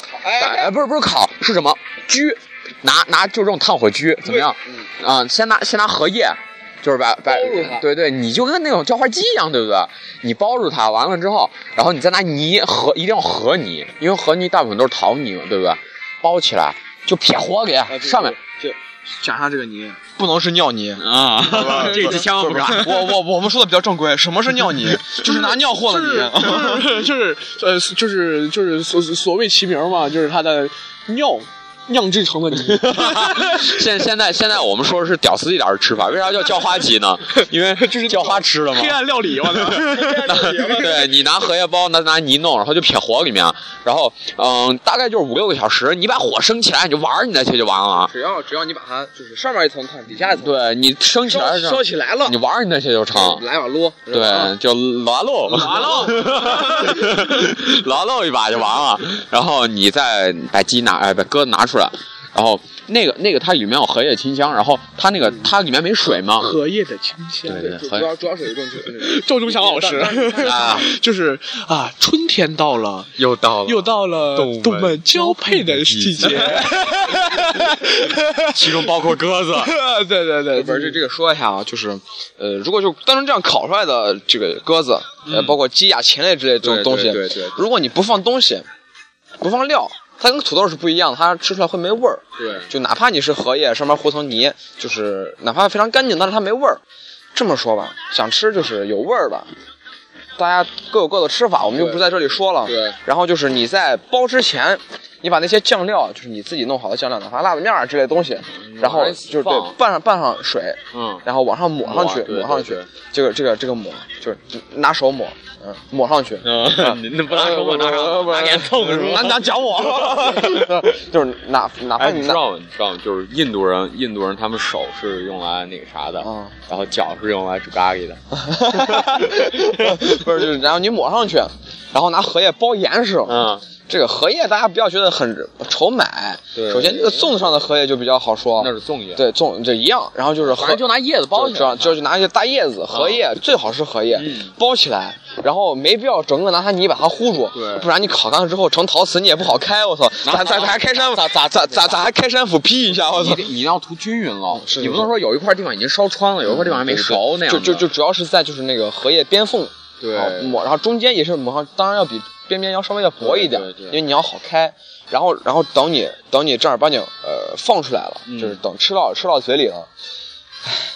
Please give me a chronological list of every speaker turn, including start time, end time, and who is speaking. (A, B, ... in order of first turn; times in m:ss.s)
0:00.1-0:00.7 A
0:00.4-0:18.4 B
0:04.2-0:04.9 A
0:07.3-0:07.9 A
0:17.9-0:27.0 A
0:21.0-0:23.1 B
0:21.6-0:22.2 C
0:25.2-0:33.8 C
0:32.7-0:39.0 B
0:37.8-0:40.8 C
0:39.7-0:48.1 B
0:39.8-0:41.1 A
0:48.1-0:50.6 A
0:50.4-0:53.4 B
0:51.2-0:52.4 A
0:53.1-0:54.5 A
0:54.1-1:06.5 B
0:55.5-0:57.0 A
0:55.6-0:56.2 C
1:06.2-1:07.7 C
1:07.5-1:08.1 B
1:07.5-1:10.8 A
1:08.9-1:13.1 C
1:10.4-1:10.9 B
1:13.2-1:16.8 B
1:13.6-1:19.0 C
1:18.5-1:19.7 B
1:19.5-1:21.0 C
1:20.5-1:28.6 A
1:25.2-1:25.6 B
1:26.6-1:27.6 B
1:29.4-1:36.8 A
1:32.4-1:32.7 B
1:37.3-1:39.5 A
1:40.4-2:02.4 A
1:41.7-1:42.0 B
1:42.6-1:43.0 B
1:48.6-1:49.7 B
1:50.9-1:51.2 B
1:51.8-1:52.9 B
1:56.4-2:00.7 B
2:02.0-2:08.2 B
2:06.2-2:06.5 A
2:08.4-2:33.5 A
2:08.8-2:10.2 B
2:13.2-2:13.6 B
2:16.5-2:17.3 B
2:18.6-2:19.2 B
2:20.5-2:22.0 B
2:22.9-2:23.2 B
2:24.2-2:24.5 B
2:27.5-2:27.9 B
2:30.2-2:32.0 B
2:33.1-2:37.9 B
2:34.5-2:35.1 A
2:36.5-2:49.9 A
2:40.0-2:40.6 B
2:43.2-2:44.0 B
2:48.3-2:48.6 B